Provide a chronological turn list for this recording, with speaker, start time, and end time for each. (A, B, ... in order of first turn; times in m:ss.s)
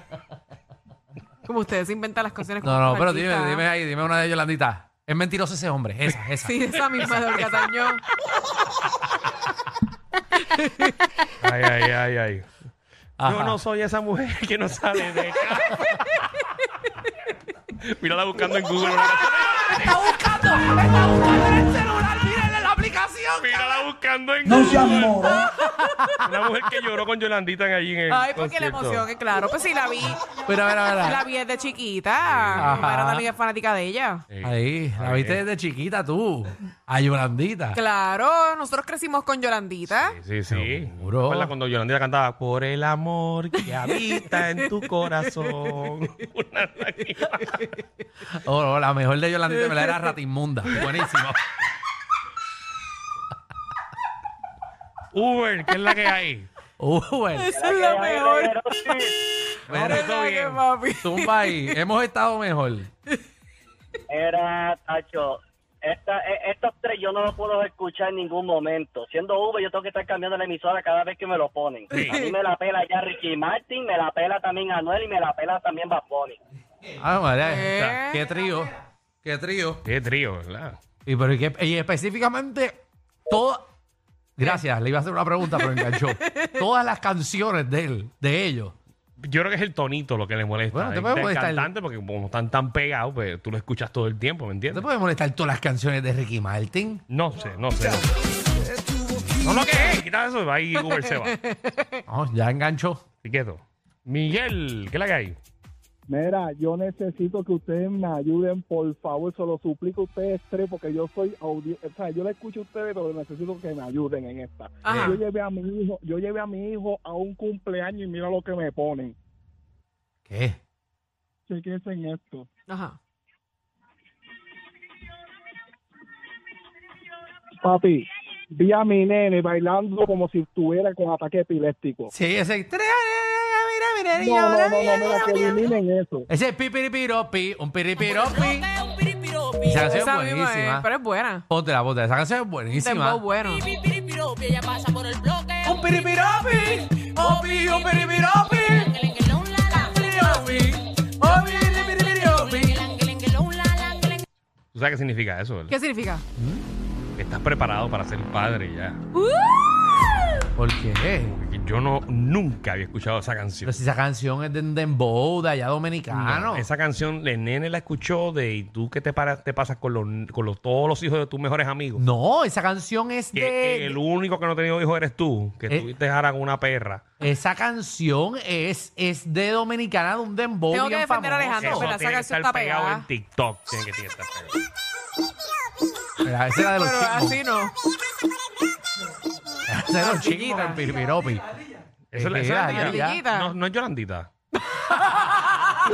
0:01.4-0:03.6 A
0:02.6-0:07.7 B
0:06.4-0:08.0 A
0:10.5-0:10.9 A
0:11.4-0:12.5 C
0:13.2-0:13.6 B
0:13.2-0:16.0 C
0:17.8-0:20.2 C
0:18.8-0:23.9 B
0:23.4-0:25.5 C
0:25.2-0:26.2 A
0:26.2-0:29.0 C
0:28.1-0:30.3 A
0:30.4-0:31.2 B
0:31.0-0:34.3 A
0:32.2-0:32.8 C
0:32.6-0:33.2 B
0:34.3-0:35.4 C
0:34.4-0:37.8 B
0:37.7-0:40.2 A
0:39.9-0:47.7 C
0:40.5-0:41.5 B
0:43.6-0:44.5 A
0:45.4-0:45.7 A
0:48.3-0:51.4 B
0:55.1-0:56.5 C
0:56.8-0:57.6 B
0:57.4-1:01.8 A
0:57.6-0:59.1 D
0:59.7-1:00.6 C
0:59.7-1:00.0 B
1:01.0-1:02.9 B
1:04.1-1:16.4 D
1:11.9-1:12.2 C
1:12.0-1:12.4 A
1:16.9-1:18.7 B
1:17.4-1:18.2 A
1:19.2-1:19.8 B
1:19.8-1:20.8 C
1:21.1-1:23.7 B
1:24.4-1:28.8 B
1:25.6-1:26.4 A
1:29.2-1:34.8 C
1:30.7-1:31.7 B
1:34.7-1:37.0 B
1:37.1-1:38.1 C
1:38.7-1:39.6 B
1:39.4-1:41.4 C
1:40.8-1:42.0 A
1:42.1-1:43.0 B
1:43.2-1:45.4 C
1:46.1-1:59.2 E
1:54.8-1:55.2 A
1:54.9-1:55.1 B
2:00.3-2:00.6 B
2:01.5-2:02.5 E
2:02.7-2:03.0 A
2:07.6-2:12.1 E
2:12.1-2:15.2 B
2:14.1-2:16.3 E
2:16.3-2:18.7 B
2:19.6-2:20.9 B
2:19.9-2:21.4 A
2:21.5-2:23.2 B
2:22.7-2:23.7 A
2:25.6-2:29.1 B
2:29.7-2:32.9 B
2:34.7-2:35.7 C
2:35.7-2:36.2 A
2:36.4-2:36.6 B
2:37.2-2:39.0 C
2:39.2-2:39.9 A
2:40.6-2:41.4 B
2:41.3-2:43.8 C
2:43.6-2:46.7 B
2:46.1-2:52.0 C
2:52.0-2:54.0 B
2:53.4-2:57.0 C
2:57.2-3:01.9 B
3:00.7-3:03.1 A
3:01.6-3:04.6 C
3:06.2-3:07.4 B
3:06.8-3:07.7 A
3:09.7-3:11.5 B
3:09.9-3:10.9 A
3:12.1-3:14.3 C
3:12.1-3:13.2 B
3:12.7-3:13.5 A
3:14.8-3:15.4 A